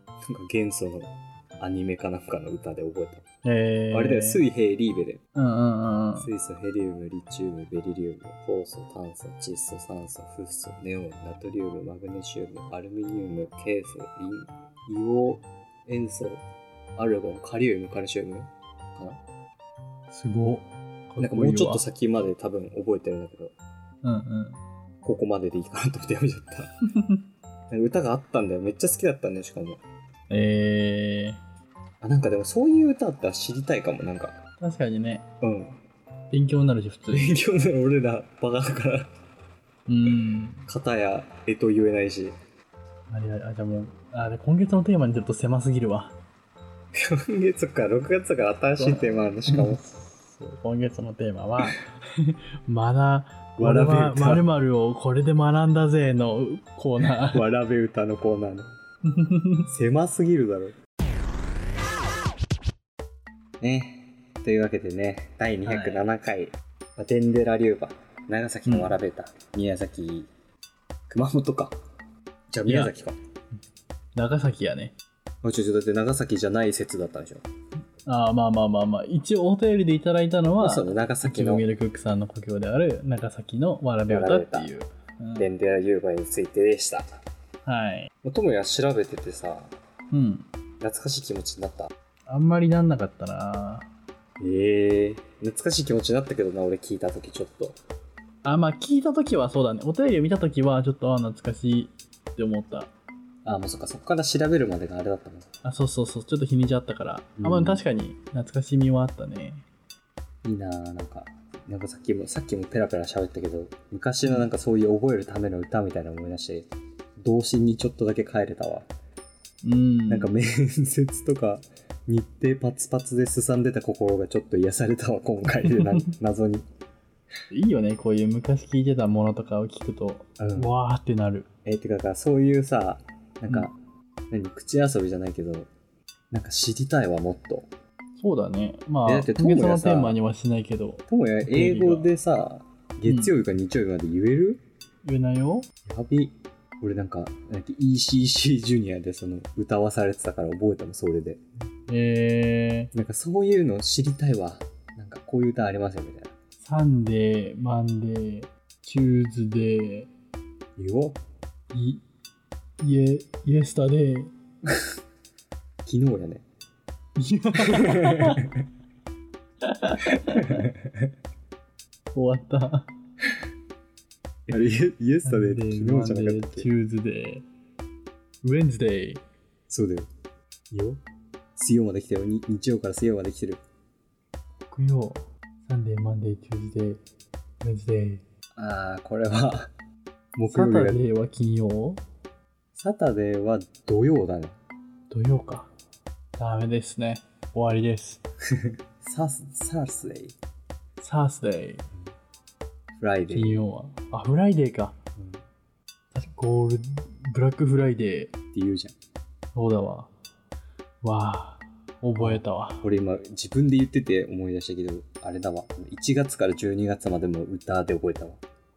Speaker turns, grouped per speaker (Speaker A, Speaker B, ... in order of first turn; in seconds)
Speaker A: 0.2-3.2, 3.9-5.2, 6.2-16.4, 16.9-19.2, 21.2-23.5, 25.0-26.7, 27.7-29.8, 32.0-34.4, 35.4-35.8, 37.1-39.1, 40.7-42.3, 46.9-49.8, 53.6-54.5, 57.0-58.7, 59.7-60.8, 63.6-70.3, 71.1-71.8, 72.5-73.2, 75.4-77.5, 80.6-81.6, 84.1-84.7, 85.4-87.1, 88.2-89.7, 90.8-91.9, 94.4-97.8, 103.4-105.5, 107.4-107.8, 110.4-116.7, 117.2-118.9, 120.1-126.7, 130.4-130.7, 131.6-133.7, 134.3-135.7, 136.3-137.7, 139.1-140.2, 141.1-144.6, 145.8-151.4, 152.9-156.3, 160.8-161.2, 165.8-166.4, 167.6-168.6, 170.1-171.1, 174.5-176.7, 179.7-180.1, 180.7-181.0, 181.6-183.6, 188.6-189.7, 190.3-191.0, 192.7-194.6, 198.5-200.3, 203.0-203.6, 205.2-205.4, 208.5-208.9, 212.2-218.4
Speaker B: 3.4-4.4, 5.3-6.3, 20.1-21.8, 24.0-24.6, 26.9-27.2, 30.3-31.4, 34.6-35.2, 36.3-37.4, 39.9-40.7, 43.1-46.2, 48.8-57.5, 59.0-59.7, 65.7-66.1, 68.7-69.0, 72.7-72.9, 74.2-74.9, 78.0-85.5, 87.6-88.1, 90.1-90.5, 92.3-93.9, 98.4-102.9, 105.6-109.6, 119.6-120.3, 127.5-131.5, 138.2-142.1, 143.1-143.3, 145.0-145.7, 151.9-152.9, 156.6-160.1, 161.7-162.0, 162.8-164.3, 167.2-168.5, 169.6-170.7, 172.1-172.9, 175.2-177.4, 178.4-179.2, 184.7-187.0, 187.6-188.2, 190.5-192.0, 195.1-195.7, 196.4-198.2, 201.0-201.9, 203.3-204.9, 206.1-208.3, 209.5-210.1, 211.0-212.8